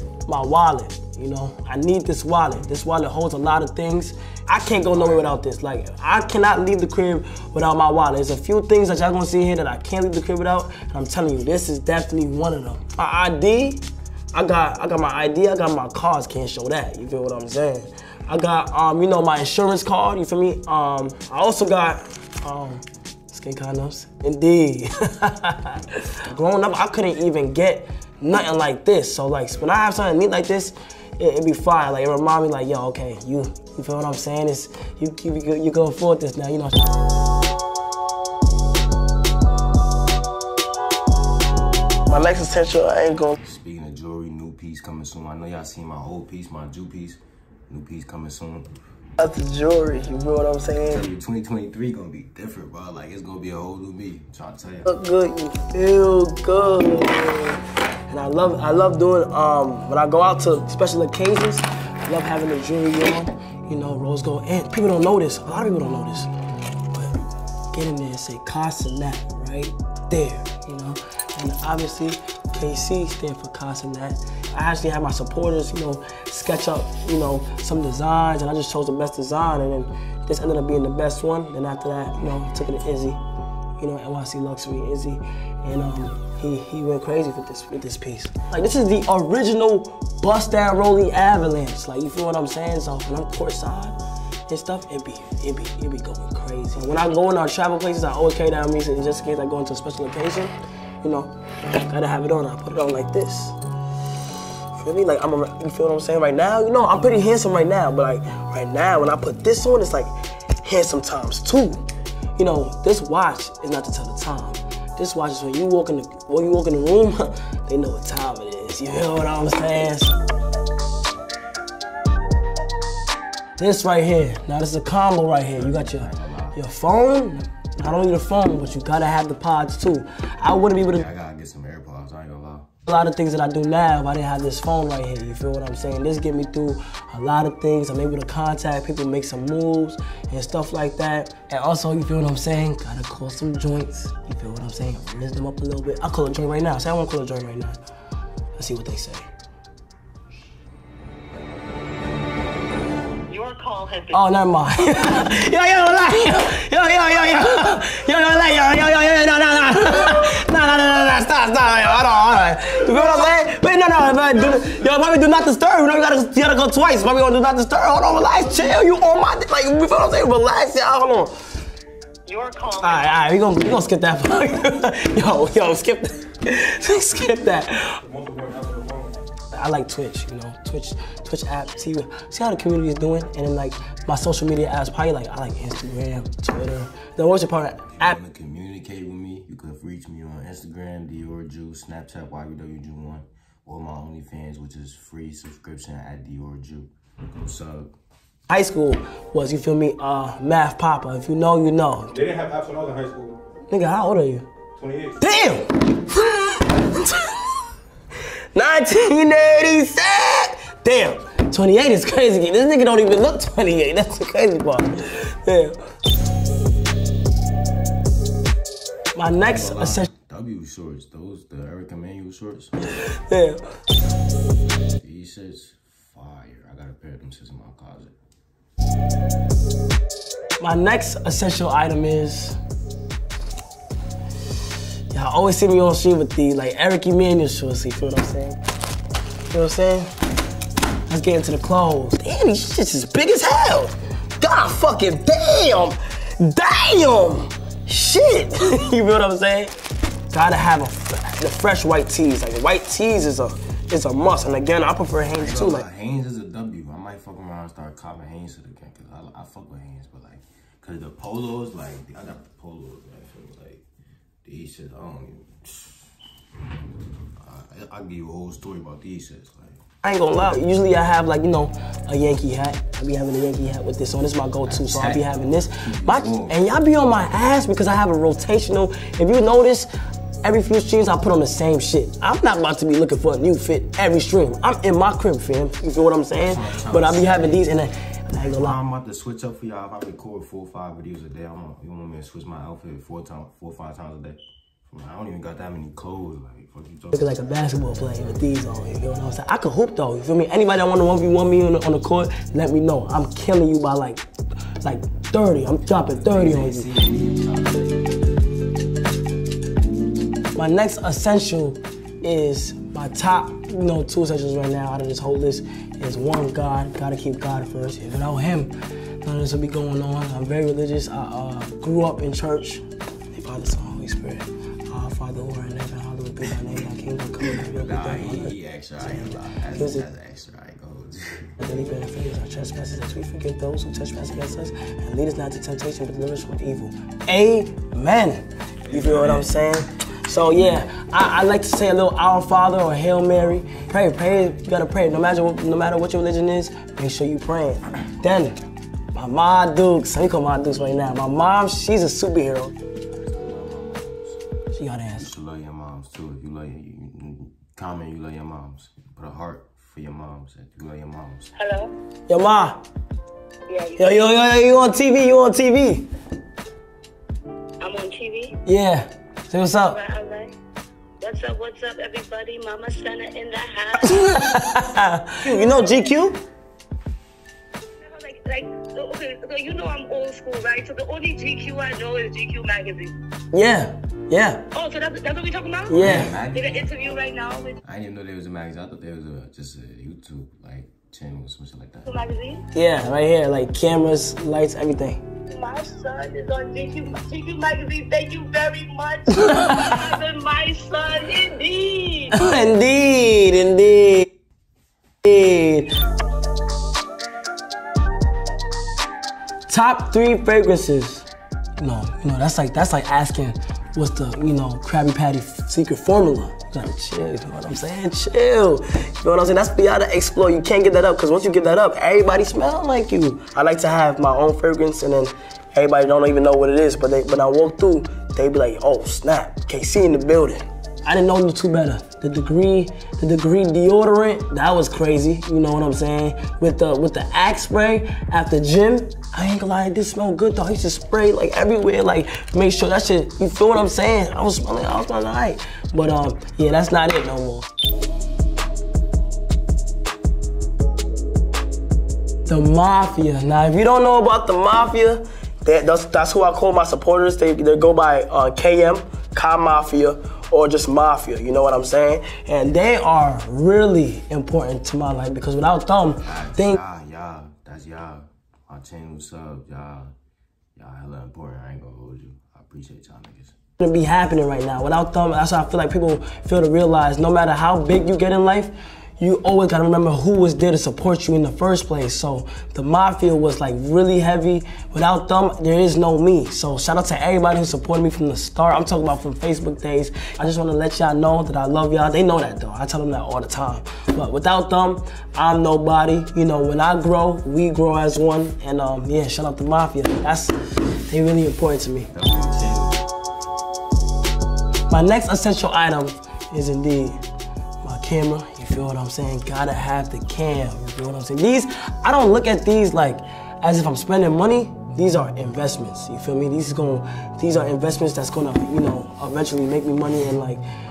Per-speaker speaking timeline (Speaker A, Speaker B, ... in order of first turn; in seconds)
Speaker A: 0.3-36.9, 42.1-43.4, 49.2-51.0, 54.9-66.3, 67.7-83.2, 83.8-94.0, 94.5-103.6, 104.7-120.2, 123.6-131.1, 132.9-147.8, 148.6-149.3, 154.1-171.3, 172.8-178.0, 179.5-188.2, 198.5-202.1, 203.7-204.5, 205.2-207.6, 208.5-215.8, 219.2-220.1, 222.9-223.6, 230.6-232.6, 235.1-238.6, 239.5-240.1, 241.1-249.8, 250.3-255.9, 270.0-279.9, 280.4-288.8, 297.1-304.2, 304.8-306.9, 310.6-330.1, 331.6-348.6, 349.1-352.7, 354.7-355.3, 362.3-362.8, 364.0-366.1, 368.7-370.0, 374.0-376.4, 383.5-384.6, 385.9-386.4, 392.7-395.2, 399.3-400.1, 402.3-404.3, 405.2-405.9, 409.7-447.7, 452.5-466.8, 473.8-502.1, 504.9-507.2, 507.8-520.6
Speaker B: 4.9-5.4, 43.4-48.7, 50.8-54.9, 125.5-126.6, 130.7-132.7, 187.9-197.9, 219.4-222.7, 225.0-228.1, 255.3-263.8, 264.4-266.1, 267.4-269.8, 274.6-276.6, 286.4-287.7, 288.4-297.3, 306.1-308.4, 327.4-331.6, 353.3-354.4, 355.1-361.5, 386.0-387.0, 387.8-392.1, 466.2-470.1, 470.8-473.6, 502.1-503.1
Speaker C: 153.3-154.2, 172.3-173.2, 361.6-361.9, 363.7-364.1, 367.8-368.6, 369.8-370.5, 371.2-374.5, 378.0-383.1, 384.7-387.8, 392.1-392.6, 395.5-402.3
Speaker D: 178.1-179.2, 202.1-203.4, 204.8-205.2, 338.9-339.3